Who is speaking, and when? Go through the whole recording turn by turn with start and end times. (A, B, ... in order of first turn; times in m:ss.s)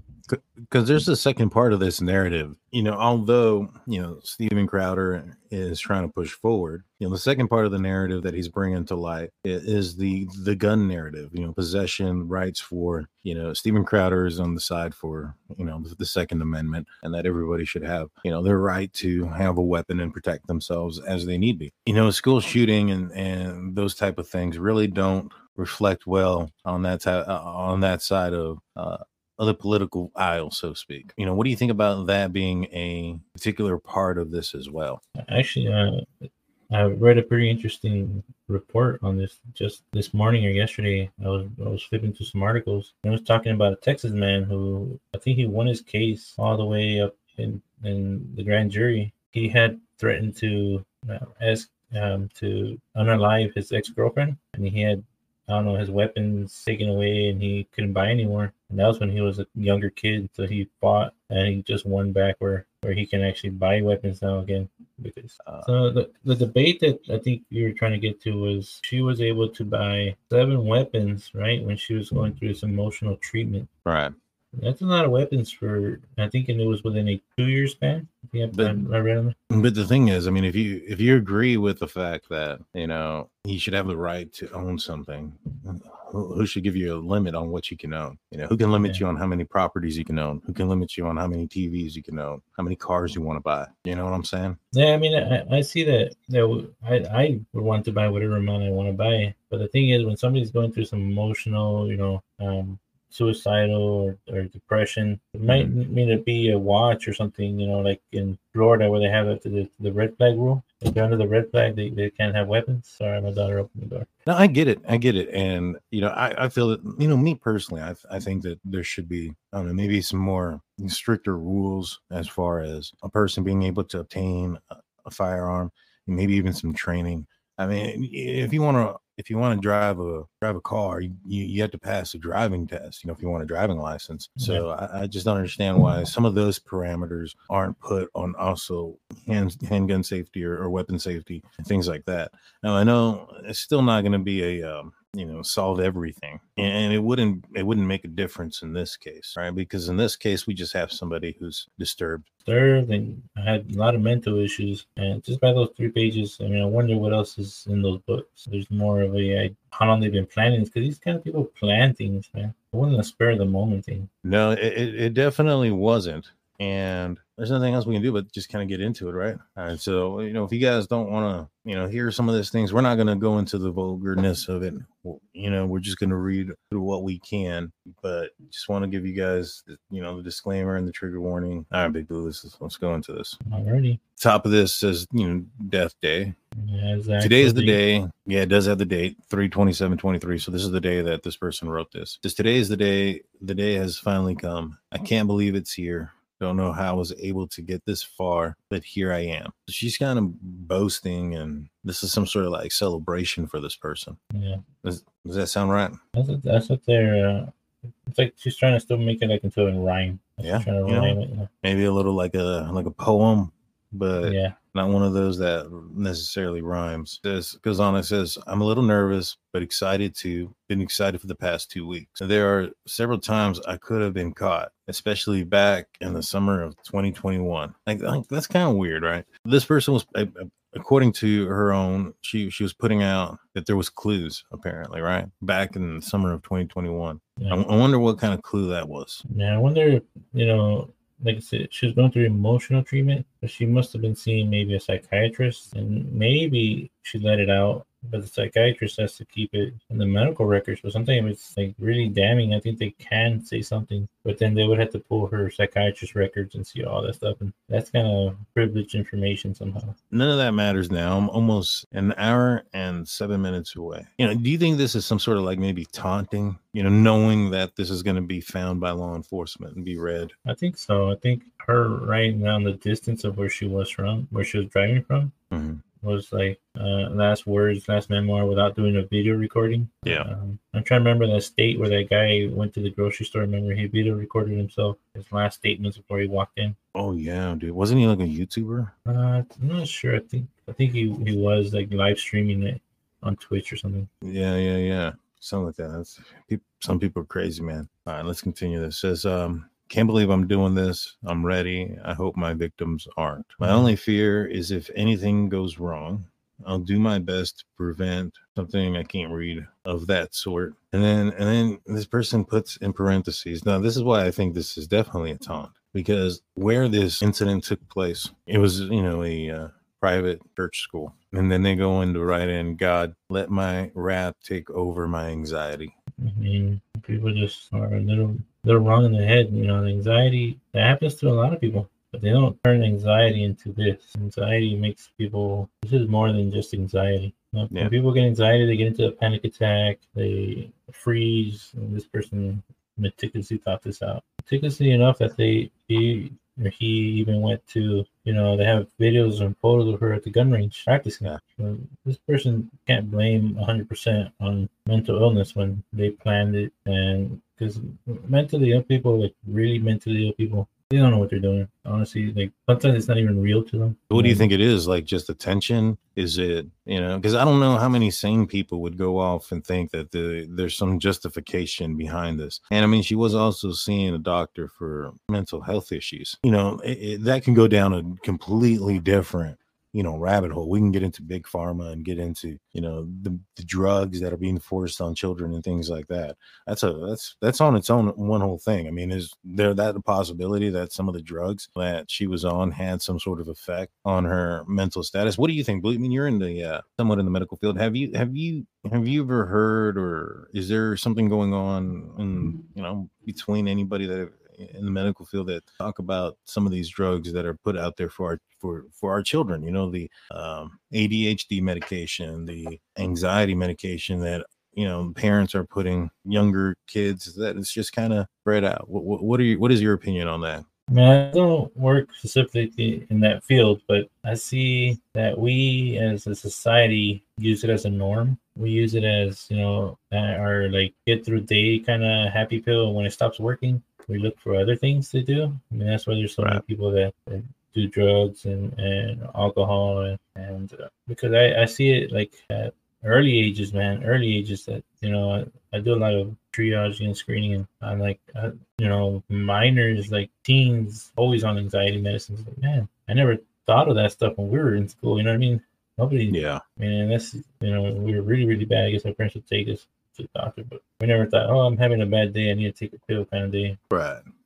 0:00.3-0:35.0 A
0:35.2-1:13.7 B
1:05.4-1:05.7 A
1:13.8-1:14.1 A
1:14.5-1:19.4 B
1:18.5-1:18.8 A
1:19.5-1:34.6 A
1:34.7-1:54.1 B
1:45.5-1:45.7 A
1:54.2-2:32.3 A
2:14.4-2:14.6 B
2:32.4-2:44.1 B
2:44.2-3:03.4 A
3:03.4-3:04.0 B
3:04.2-3:06.4 A
3:06.6-3:07.8 B
3:07.2-3:24.2 A
3:24.3-3:24.6 B
3:24.8-3:26.0 A
3:26.1-3:27.5 B
3:28.0-3:31.5 B
3:30.4-3:59.2 A
3:34.2-3:34.6 B
3:59.2-4:19.9 B
4:20.1-4:30.3 A
4:30.4-4:35.3 B
4:35.5-4:35.8 A
4:36.0-4:46.8 B
4:46.9-4:48.9 A
4:49.0-4:54.1 B
4:54.2-5:25.9 A
5:03.6-5:03.9 B
5:26.2-6:04.5 B
6:04.1-7:00.6 A
7:00.9-7:43.8 B
7:36.3-7:36.6 A
7:43.9-7:44.2 A